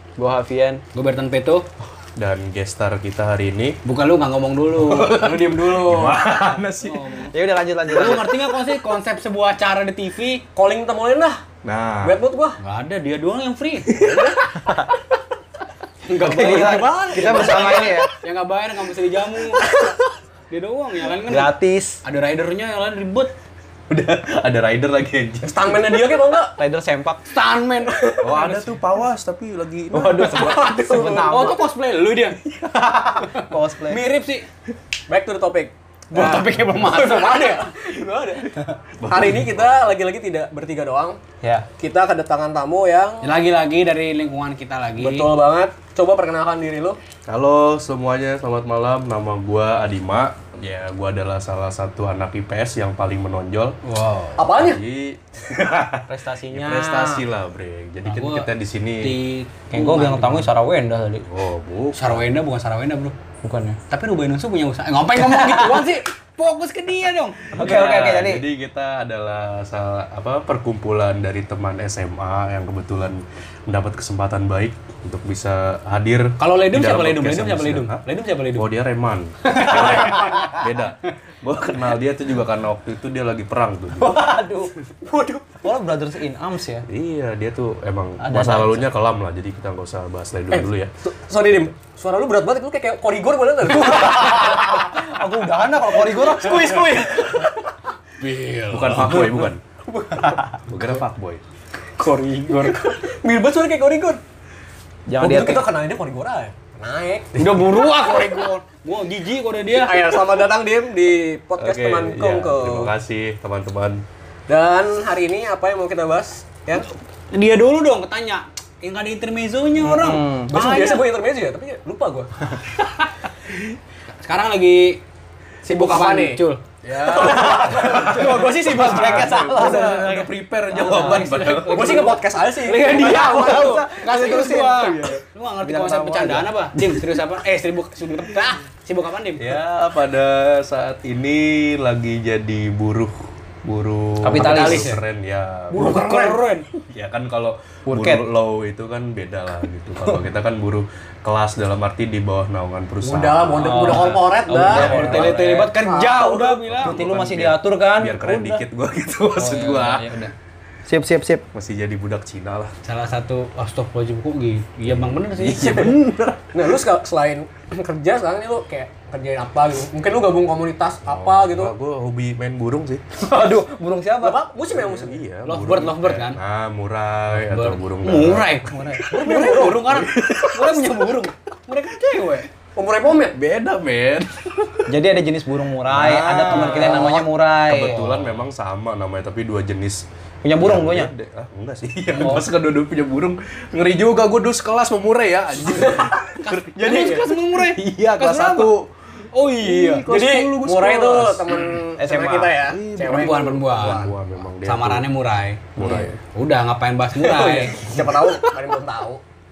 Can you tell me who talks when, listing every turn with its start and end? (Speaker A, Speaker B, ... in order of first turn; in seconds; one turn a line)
Speaker A: 0.2-0.8
Speaker B: 0.9-1.7
Speaker C: 2.2-3.8
Speaker B: 3.8-5.2
Speaker C: 4.8-7.1
Speaker D: 5.0-6.3
Speaker B: 6.8-7.3
Speaker A: 7.3-8.3
Speaker B: 7.9-10.4
Speaker D: 10.6-11.4
Speaker C: 11.6-12.2
Speaker D: 12.0-12.6
Speaker B: 12.6-13.9
Speaker C: 13.9-14.3
Speaker D: 13.9-14.4
Speaker A: 14.7-14.9
Speaker D: 16.1-18.0
Speaker B: 16.1-19.7
Speaker A: 16.2-18.1
Speaker D: 19.7-19.9
Speaker B: 20.5-21.5
Speaker A: 21.3-22.0
Speaker B: 22.0-23.3
Speaker C: 23.9-26.2
Speaker D: 25.4-26.6
Speaker A: 26.6-27.4
Speaker B: 27.3-28.7
Speaker D: 27.9-28.4
Speaker C: 28.2-30.6
Speaker A: 29.9-31.7
Speaker D: 30.0-31.5
Speaker B: 30.2-32.4
Speaker A: 32.6-34.0
Speaker B: 33.2-34.5
Speaker D: 35.1-38.5
Speaker B: 36.1-37.8
Speaker A: 36.1-36.6
Speaker C: 39.0-39.9
Speaker D: 39.1-41.2
Speaker A: 41.4-41.7
Speaker D: 41.8-43.3
Speaker B: 43.2-45.3
Speaker D: 45.0-47.0
Speaker C: 47.3-59.2
Speaker B: 53.9-54.4
Speaker D: 54.4-54.8
Speaker A: 56.1-57.2
Speaker B: 58.1-58.5
Speaker B: 59.0-60.5
Speaker A: 59.7-61.2
Speaker C: 61.3-62.2
Speaker B: 62.0-63.1
Speaker A: 63.4-63.8
Speaker B: 63.9-67.9
Speaker A: 65.2-65.9
Speaker A: 67.5-68.5
Speaker C: 67.5-84.2
Speaker B: 76.4-78.7
Speaker A: 79.5-80.5
Speaker B: 79.5-80.5
Speaker A: 84.0-84.7
Speaker A: 85.5-86.9
Speaker C: 86.9-90.9
Speaker A: 88.2-88.9
Speaker D: 90.5-95.1
Speaker A: 93.7-97.1
Speaker D: 96.0-97.6
Speaker B: 98.2-99.3
Speaker C: 98.7-99.6
Speaker D: 99.0-100.5
Speaker C: 100.7-101.4
Speaker B: 102.0-102.8
Speaker D: 102.3-104.2
Speaker A: 105.1-105.7
Speaker D: 105.2-108.3
Speaker B: 107.4-110.2
Speaker D: 109.8-112.9
Speaker C: 111.6-114.0
Speaker D: 114.5-116.9
Speaker B: 117.3-121.0
Speaker A: 119.8-120.5
Speaker D: 120.5-122.5
Speaker B: 124.2-125.0
Speaker D: 125.6-126.4
Speaker B: 125.6-126.6
Speaker C: 126.8-132.1
Speaker D: 127.0-129.6
Speaker A: 127.2-130.3
Speaker B: 127.9-129.9
Speaker B: 130.7-139.6
Speaker D: 131.7-133.8
Speaker A: 132.8-135.1
Speaker A: 135.6-136.9
Speaker C: 139.4-155.3
Speaker A: 144.2-144.9
Speaker B: 144.3-145.0
Speaker B: 145.7-146.7
Speaker A: 147.9-148.2
Speaker D: 153.0-156.6
Speaker A: 153.6-156.0
Speaker B: 153.7-157.0
Speaker C: 156.6-160.2
Speaker A: 156.8-158.6
Speaker B: 159.4-160.3
Speaker A: 160.9-161.4
Speaker C: 161.5-162.7
Speaker B: 162.8-165.9
Speaker C: 164.9-166.8
Speaker D: 165.6-171.7
Speaker C: 171.0-173.0
Speaker A: 173.2-174.4
Speaker D: 174.2-175.2
Speaker C: 174.6-178.6
Speaker B: 175.5-176.4
Speaker B: 177.3-182.5
Speaker A: 178.7-179.2
Speaker D: 179.1-179.9
Speaker C: 179.2-180.9
Speaker D: 182.8-183.4
Speaker C: 183.3-184.9
Speaker A: 184.9-188.1
Speaker C: 185.9-190.1
Speaker B: 186.4-187.1
Speaker B: 187.8-188.3
Speaker A: 190.4-191.1
Speaker C: 190.6-198.9
Speaker A: 192.2-192.4
Speaker D: 195.8-196.1
Speaker B: 196.4-198.7
Speaker D: 196.8-197.3
Speaker B: 199.3-200.1
Speaker C: 199.5-201.7
Speaker D: 200.1-204.1
Speaker A: 202.0-202.6
Speaker C: 202.6-205.1
Speaker B: 203.1-204.1
Speaker B: 204.6-207.9
Speaker C: 205.8-206.2
Speaker D: 207.2-209.2